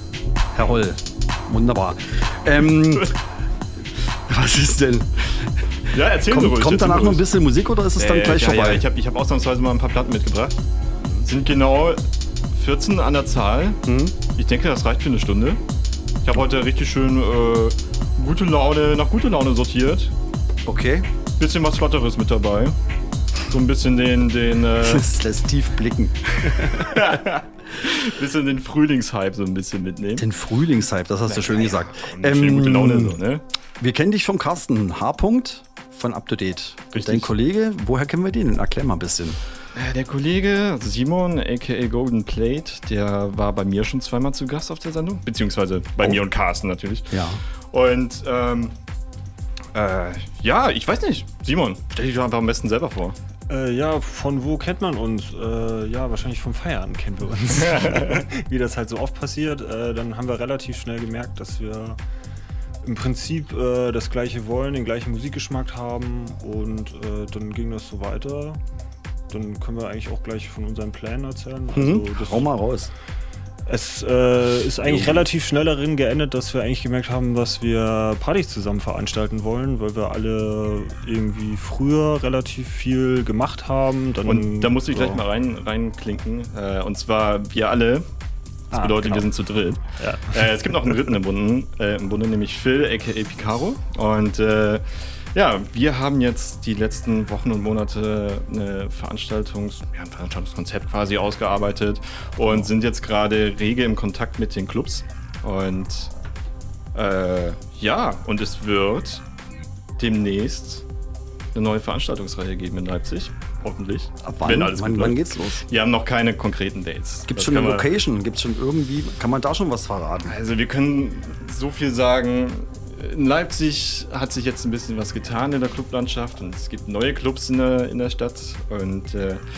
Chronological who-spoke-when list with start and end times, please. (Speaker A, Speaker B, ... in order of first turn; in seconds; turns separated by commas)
Speaker A: 0.5-3.2, Speaker A: 4.3-8.8, Speaker B: 5.9-7.2, Speaker B: 8.0-10.6, Speaker A: 11.0-11.3, Speaker B: 11.2-13.8, Speaker A: 13.8-14.2, Speaker B: 14.3-15.6, Speaker B: 16.2-20.1, Speaker A: 20.6-21.1, Speaker B: 21.4-22.8, Speaker B: 23.5-25.1, Speaker A: 24.8-26.9, Speaker B: 26.4-30.3, Speaker A: 30.2-33.2, Speaker B: 31.3-33.4, Speaker A: 33.8-39.4, Speaker B: 36.9-37.3, Speaker B: 39.7-48.7, Speaker A: 47.1-47.4, Speaker B: 49.7-53.1, Speaker C: 53.5-62.0, Speaker B: 57.6-58.2, Speaker C: 62.8-68.6, Speaker C: 69.3-72.5, Speaker A: 71.7-72.9, Speaker C: 73.7-85.2, Speaker A: 74.8-75.2, Speaker B: 84.2-88.0, Speaker C: 88.7-89.3, Speaker B: 88.8-106.1, Speaker C: 90.0-90.4, Speaker B: 106.9-109.2, Speaker B: 110.0-110.8, Speaker B: 111.5-117.9, Speaker A: 114.2-115.6, Speaker A: 117.3-120.3, Speaker B: 120.2-129.4